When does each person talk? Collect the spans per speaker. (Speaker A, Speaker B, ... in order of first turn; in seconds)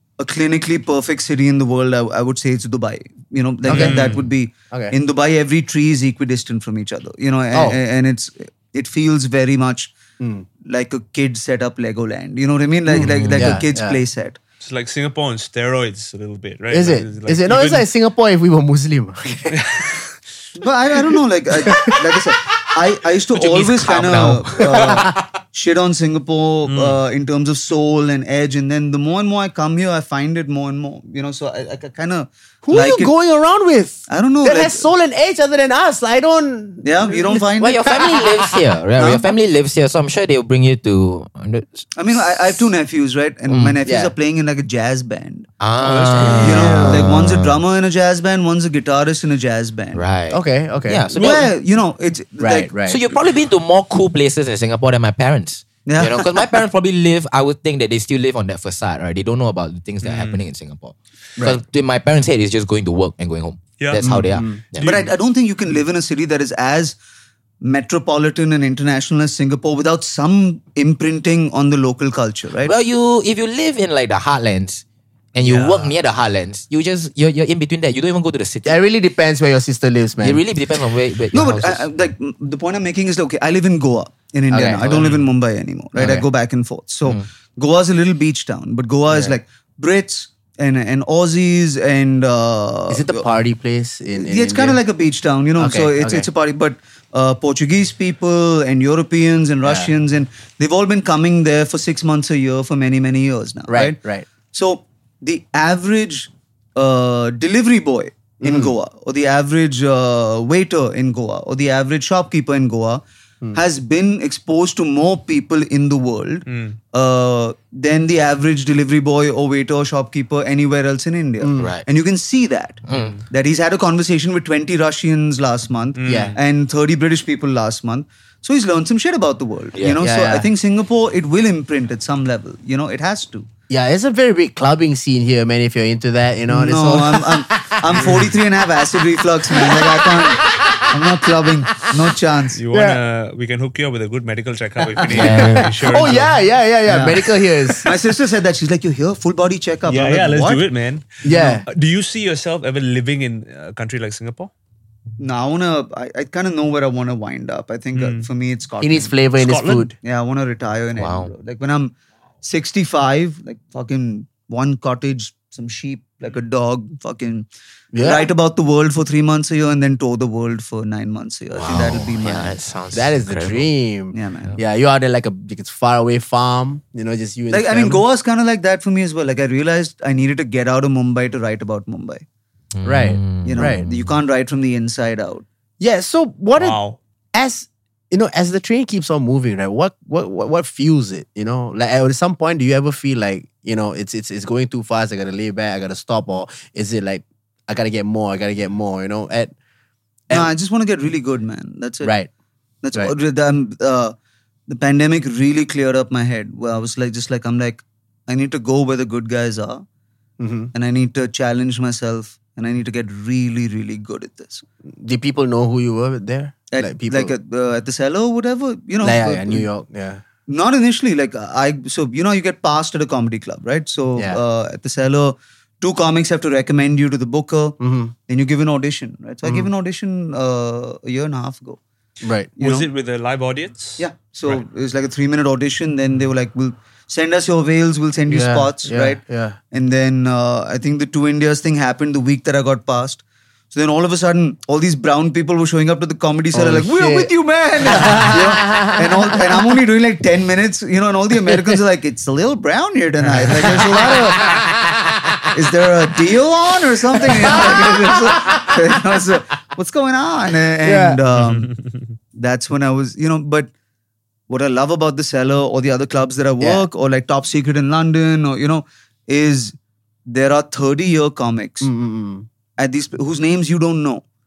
Speaker A: 0.2-9.9, 10.6-14.4, 20.6-33.1, 34.1-34.9, 36.8-37.8, 42.0-45.5, 46.4-50.0, 51.1-52.7, 55.9-56.5, 64.8-67.0, 67.6-72.7, 81.3-93.3, 94.2-104.0, 104.5-113.0, 113.5-133.5, 136.5-142.6, 146.9-147.2, 147.8-150.7, 151.3-151.6, 155.2-159.2, 160.0-167.5, 168.0-172.6, 174.1-174.6, 177.5-182.2, 183.4-185.5, 200.3-202.1, 202.8-204.2, 204.7-209.8, 210.7-214.7, 216.7-219.7, 220.5-231.8, 232.6-232.9, 234.0-254.5, 255.5-261.7, 262.4-263.7, 264.5-269.8, 270.3-271.9, 272.8-274.2
Speaker B: 3.7-4.0, 7.5-7.8, 10.2-10.5, 12.9-14.0, 16.7-19.6, 21.6-22.2, 24.8-25.1, 32.6-39.2, 43.9-44.1, 45.9-47.1, 50.3-51.1, 52.4-53.0, 64.0-64.6, 78.6-80.4, 84.5-85.1, 89.1-89.3, 92.9-94.8, 95.6-96.3, 99.6-99.9, 103.7-104.3, 108.4-108.7, 121.4-121.8, 126.0-126.4, 130.0-130.5, 133.7-138.0, 139.5-141.0, 142.7-143.0, 145.1-147.9, 151.2-151.7, 158.8-159.9, 167.9-168.3, 172.9-178.0, 182.8-183.8, 185.8-186.8, 187.3-199.5, 202.0-202.3, 210.4-210.7, 215.0-217.3, 219.0-220.2, 227.8-228.1, 229.4-229.7, 232.2-232.5, 238.3-239.6, 246.5-249.4, 251.5-251.8, 253.6-254.6, 257.2-258.8, 260.9-261.2, 271.8-272.5
Speaker C: 3.7-4.3, 13.1-13.5, 14.6-17.9, 19.5-20.0, 26.7-27.0, 45.8-46.9, 60.0-60.4, 63.8-65.1, 75.4-76.0, 85.0-85.2, 116.5-116.8, 126.0-126.4, 137.9-138.3, 142.6-146.4, 149.9-154.5, 157.9-158.3, 159.4-159.9, 186.6-187.0, 232.6-234.6, 261.4-261.8
Speaker D: 23.3-25.2, 37.6-42.2, 43.5-43.8, 45.6-47.6, 50.0-51.5, 52.9-65.0, 72.7-78.8, 80.2-81.9, 86.0-86.2, 121.6-121.8, 122.9-123.2, 145.1-145.7, 161.0-161.3, 171.6-173.7, 182.8-184.2